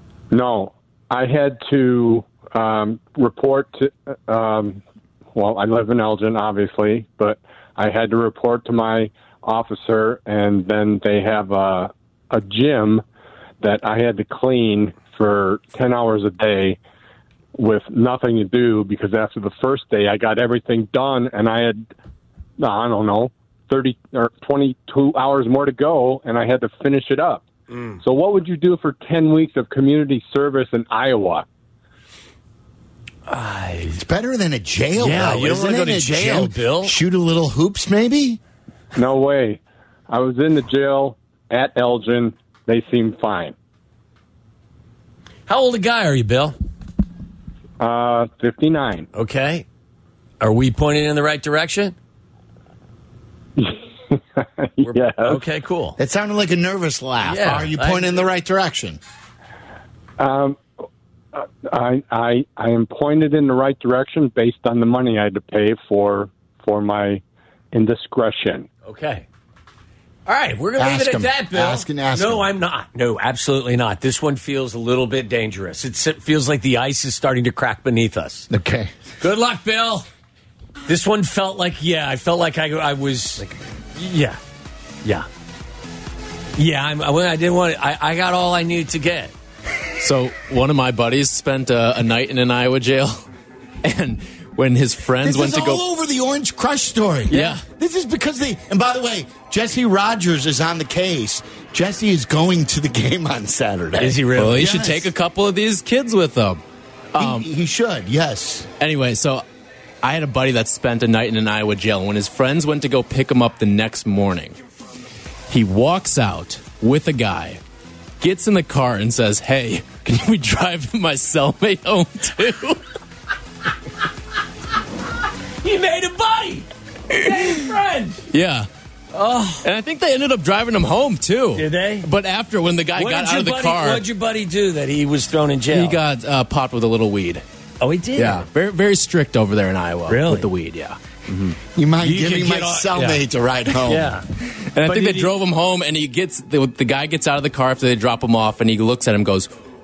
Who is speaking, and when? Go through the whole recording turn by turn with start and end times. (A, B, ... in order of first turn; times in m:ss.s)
0:00.3-0:04.8 A
0:05.3-0:13.0 A
0:13.6-0:16.8 A
0:17.6-0:21.8 A
0:22.6-0:27.5 A
0:27.7-0:28.0 B
0:28.0-0:31.4 A
0:33.3-0:34.0 B
0:33.9-0:38.4 C
0:35.0-0:37.0 B
0:39.0-0:43.5 A
0:45.5-0:46.6 B
0:47.8-0:49.1 A
0:49.1-0:49.6 B
0:50.4-0:51.9 B
0:53.6-0:55.4 A
0:54.8-0:56.0 B
0:56.0-0:59.0 C
0:57.2-0:58.3 B
1:00.2-1:00.6 A
1:01.3-1:08.7 A
1:08.8-1:09.2 B
1:10.2-1:18.5 B
1:10.8-1:12.5 C
1:18.5-1:18.9 C
1:19.2-1:20.0 B
1:20.9-1:23.4 B
1:24.0-1:24.4 B
1:25.0-1:25.3 B
1:26.6-1:29.3 B
1:30.0-1:33.2 D
1:33.8-1:35.8 D
1:35.2-1:45.1 C
1:37.3-1:37.6 B
1:37.3-1:37.6 D
1:44.0-1:44.8 B
1:44.4-1:46.6 D
1:47.1-1:47.5 D
1:47.2-1:48.7 C
1:48.8-1:49.4 D
1:50.0-1:54.6 D
1:55.5-1:57.6 D
1:58.2-2:02.8 D
2:05.6-2:08.2 B
2:08.3-2:08.7 D
2:09.1-2:09.7 B
2:09.6-2:14.0 D
2:11.5-2:12.1 B
2:12.9-2:16.0 B
2:15.7-2:17.4 D
2:17.8-2:18.5 B
2:18.2-2:21.0 D
2:20.1-2:20.5 B
2:21.3-2:23.2 B
2:21.7-2:24.2 C
2:23.7-2:24.2 B
2:24.7-2:29.5 D
2:24.8-2:25.3 B